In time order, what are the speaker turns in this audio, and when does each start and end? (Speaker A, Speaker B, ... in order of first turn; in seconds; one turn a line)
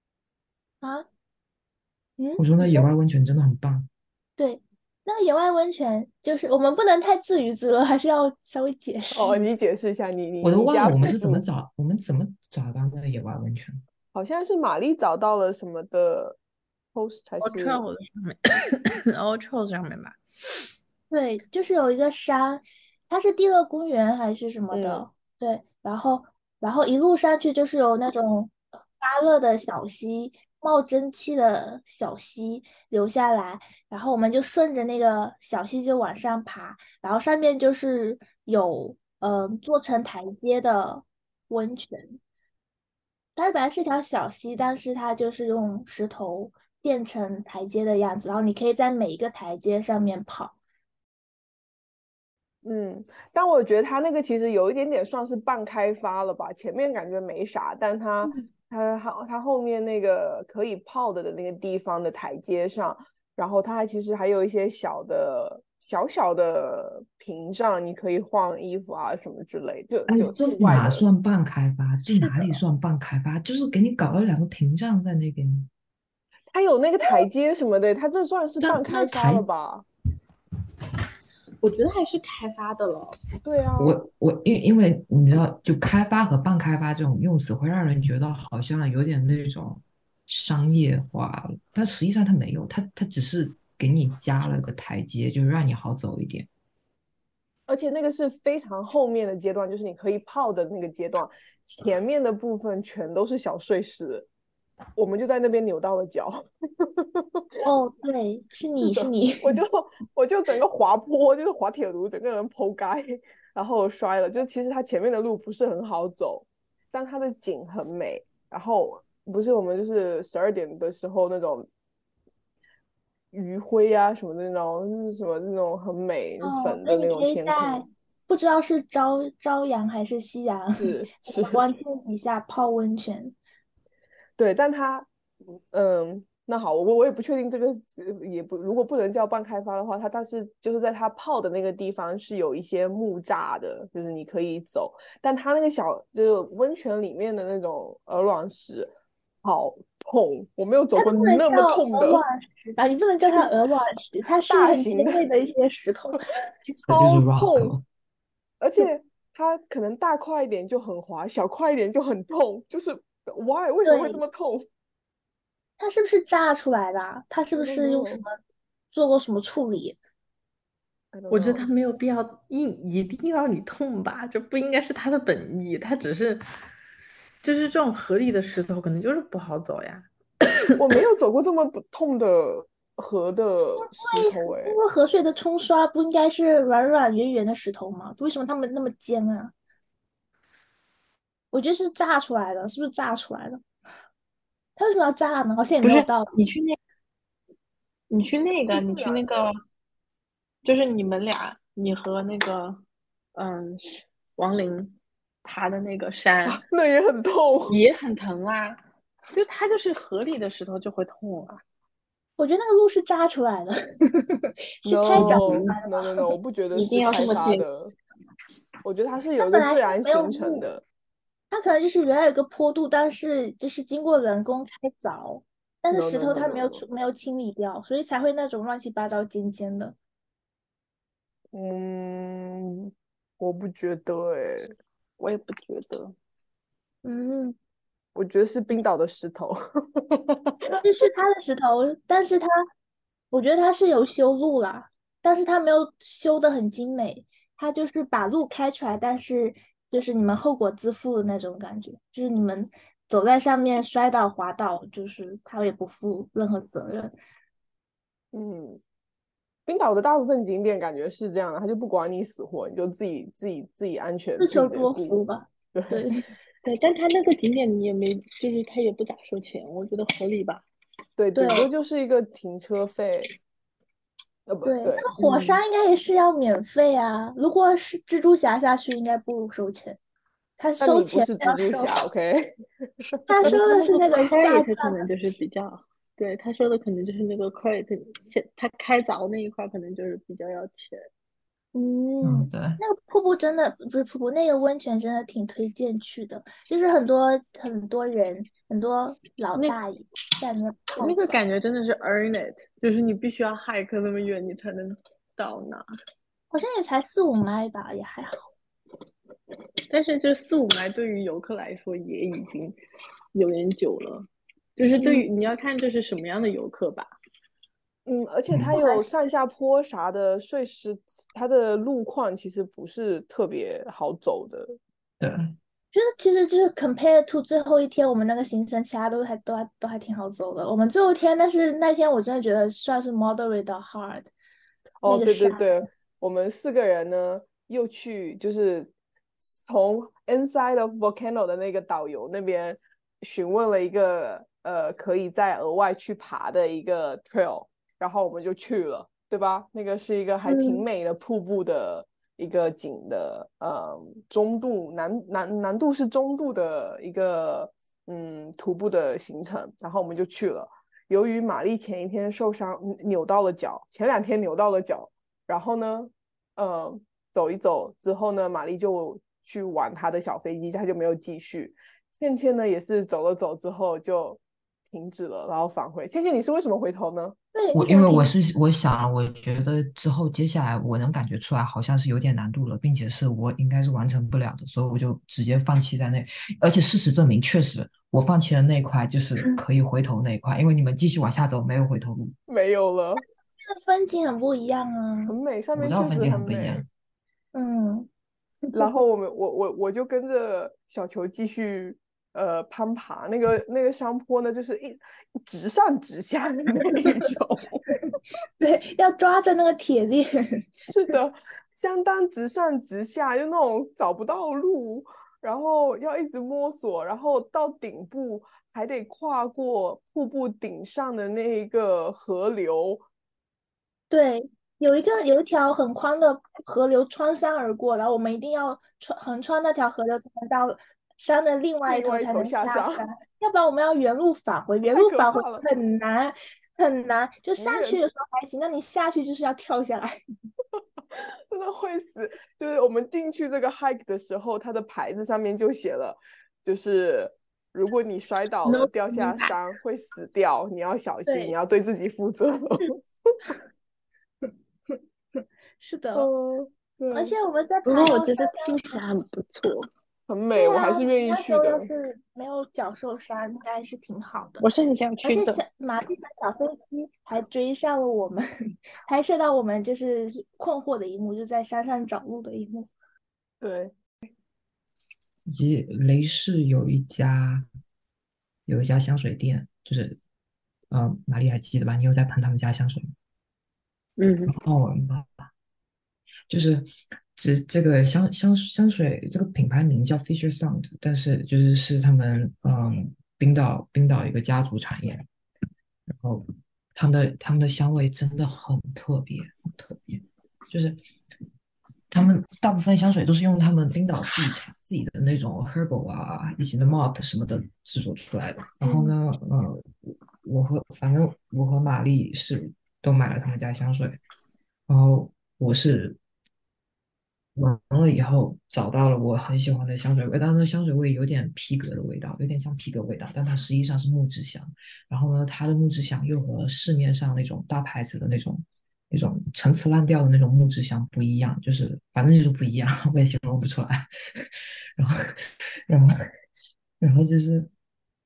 Speaker A: 0.8-1.1
Speaker A: 2.2-2.9
Speaker B: 2.4-3.9
Speaker A: 4.4-9.5
Speaker C: 9.1-11.4
Speaker B: 10.4-13.8
Speaker C: 14.1-16.4
Speaker C: 16.9-17.8
Speaker D: 17.4-20.2
Speaker A: 21.1-42.2
Speaker C: 24.7-25.1
Speaker A: 43.4-50.5
Speaker C: 52.6-71.1
Speaker B: 70.1-75.7
Speaker C: 76.5-79.8
Speaker B: 78.6-79.5
Speaker D: 81.6-83.2
Speaker C: 83.4-84.0
Speaker B: 83.8-96.5
Speaker C: 97.7-104.3
Speaker C: 105.0-107.4
Speaker A: 107.6-109.6
Speaker C: 108.8-121.7
Speaker C: 123.3-127.8
Speaker A: 126.4-133.3
Speaker C: 130.8-131.6
Speaker C: 134.4-135.1
Speaker C: 135.7-148.9
Speaker C: 149.4-152.2
Speaker A: 150.9-156.8
Speaker C: 154.5-155.2
Speaker C: 156.9-157.7
Speaker B: 156.9-157.8
Speaker C: 158.6-164.6
Speaker A: 163.8-164.2
Speaker A: 165.8-168.4
Speaker C: 167.5-168.2
Speaker A: 168.9-170.0
Speaker C: 171.1-171.7
Speaker D: 171.3-176.4
Speaker D: 177.4-180.1
Speaker C: 180.8-184.8
Speaker A: 183.8-189.5
Speaker A: 191.5-193.6
Speaker A: 194.8-196.3
Speaker E: 195.8-196.8
Speaker E: 198.1-199.6
Speaker C: 198.7-199.2
Speaker E: 200.6-202.8
Speaker E: 203.3-206.6
Speaker C: 206.4-207.8
Speaker E: 207.7-208.8
Speaker E: 209.3-211.6
Speaker A: 212.4-216.2
Speaker C: 214.8-217.9
Speaker E: 215.1-215.8
Speaker E: 216.7-217.7
Speaker C: 218.8-220.8
Speaker A: 219.4-220.7
Speaker A: 221.5-229.9
Speaker C: 225.9-226.8
Speaker C: 231.5-234.7
Speaker E: 235.2-236.1
Speaker A: 237.0-237.6
Speaker C: 238.1-240.6
Speaker A: 240.8-242.5
Speaker A: 243.3-257.1
Speaker C: 258.3-258.8
Speaker C: 259.7-265.2
Speaker A: 264.4-266.1
Speaker C: 265.7-266.1
Speaker E: 266.6-270.6
Speaker C: 271.2-273.3
Speaker A: 271.4-271.7
Speaker C: 274.5-275.1
Speaker A: 274.6-280.0
Speaker E: 275.2-275.6
Speaker A: 280.6-281.9
Speaker C: 280.8-283.6
Speaker E: 281.4-281.7
Speaker A: 283.3-285.0
Speaker E: 283.4-291.0
Speaker A: 291.7-301.4
Speaker B: 292.2-292.8
Speaker E: 301.0-305.8
Speaker A: 306.5-308.4
Speaker E: 309.9-312.8
Speaker E: 313.3-317.1
Speaker A: 315.0-315.2
Speaker C: 318.1-324.8
Speaker A: 318.8-319.1
Speaker B: 325.2-325.5
Speaker A: 325.9-334.3
Speaker C: 335.0-338.9
Speaker A: 335.1-335.8
Speaker C: 339.4-377.4
Speaker A: 350.4-350.8
Speaker A: 377.5-378.4
Speaker B: 377.7-392.3
Speaker C: 392.5-393.2
Speaker A: 393.6-395.3
Speaker C: 395.3-396.8
Speaker B: 395.7-396.9
Speaker A: 397.5-398.1
Speaker C: 398.7-407.8
Speaker A: 408.6-410.7
Speaker C: 410.9-423.0
Speaker A: 424.1-440.2
Speaker C: 431.9-433.1
Speaker C: 434.9-435.6
Speaker C: 437.6-438.0
Speaker C: 441.1-453.0
Speaker E: 448.7-449.5
Speaker A: 451.3-451.5
Speaker A: 455.8-456.3
Speaker C: 456.1-457.3
Speaker A: 457.1-458.9
Speaker E: 457.8-459.9
Speaker C: 460.3-461.9
Speaker A: 460.5-464.6
Speaker E: 464.6-465.6
Speaker A: 465.2-468.4
Speaker A: 469.1-472.9
Speaker C: 473.6-473.9
Speaker B: 475.5-477.7
Speaker B: 478.7-480.2
Speaker B: 480.9-483.1
Speaker E: 484.2-484.5
Speaker B: 484.5-485.5
Speaker B: 486.5-495.2
Speaker B: 496.1-496.4
Speaker B: 496.9-501.0
Speaker B: 502.1-514.2
Speaker A: 508.9-509.1
Speaker B: 514.9-516.2
Speaker B: 517.5-534.4
Speaker B: 535.9-536.2
Speaker B: 537.0-537.7